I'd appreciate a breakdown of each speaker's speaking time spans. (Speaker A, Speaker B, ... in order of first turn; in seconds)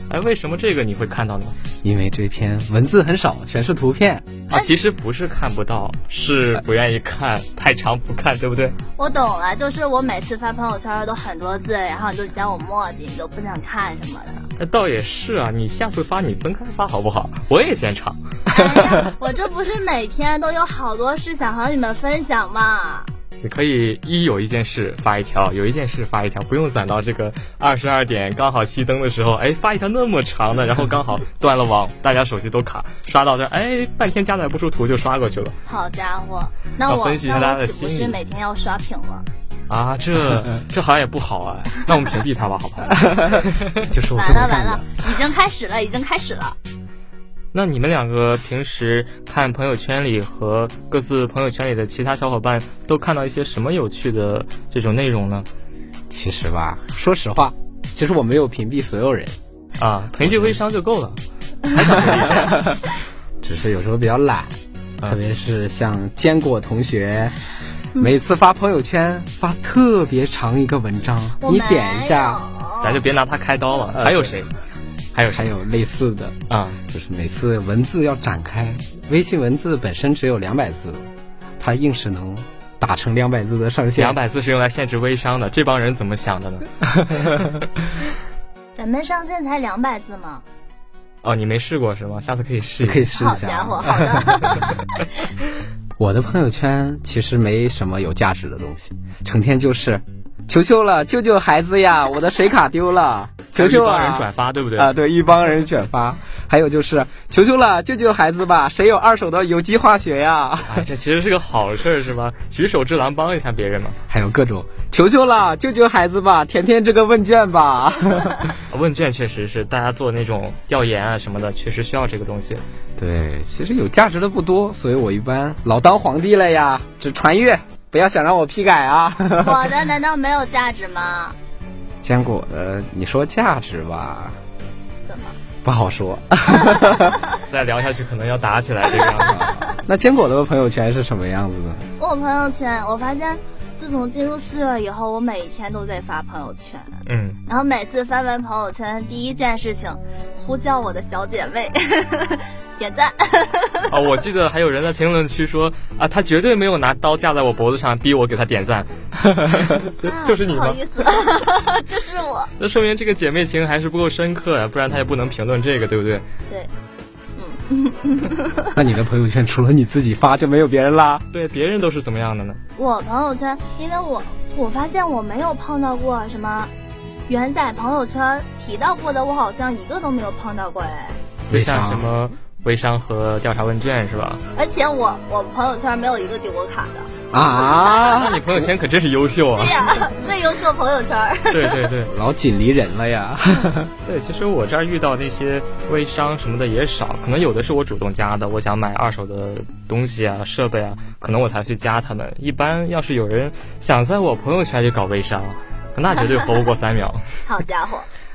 Speaker A: 0.1-1.6, 4.5-8.8, 14.6-18.2, 23.4-35.6, 36.9-38.2, 39.7-43.9, 47.5-55.5, 59.8-61.2, 61.7-62.7, 72.8-74.5, 75.1-75.5, 76.5-76.8, 84.0-86.7, 91.2-93.1, 103.5-104.9, 110.7-114.0, 118.7-122.6, 137.4-139.4, 147.1-147.4, 153.9-160.8, 162.6-166.2, 171.3-172.6, 181.5-184.4, 188.1-189.8, 191.5-192.1, 194.1-207.2
Speaker B: 1.8-4.3, 43.0-44.9, 56.1-59.4, 60.2-60.6, 61.8-62.6, 63.4-67.4, 68.0-72.4, 74.0-74.4, 75.3-76.4, 76.9-81.1, 81.6-84.2, 92.8-94.2, 96.0-110.9, 114.1-118.6, 123.0-129.7, 132.0-134.4, 135.6-137.2, 139.3-141.8, 168.7-171.2, 181.5-182.1, 187.3-188.7, 192.1-193.9
Speaker C: 9.0-14.5, 18.5-23.1, 35.7-39.3, 44.2-46.6, 71.4-73.0, 88.8-90.5, 93.1-95.0, 129.4-131.4, 135.1-135.4, 142.0-153.9, 160.0-162.5, 167.4-168.8, 172.8-176.7, 177.3-181.2, 184.6-187.1, 187.7-188.1, 189.6-191.8, 207.5-208.1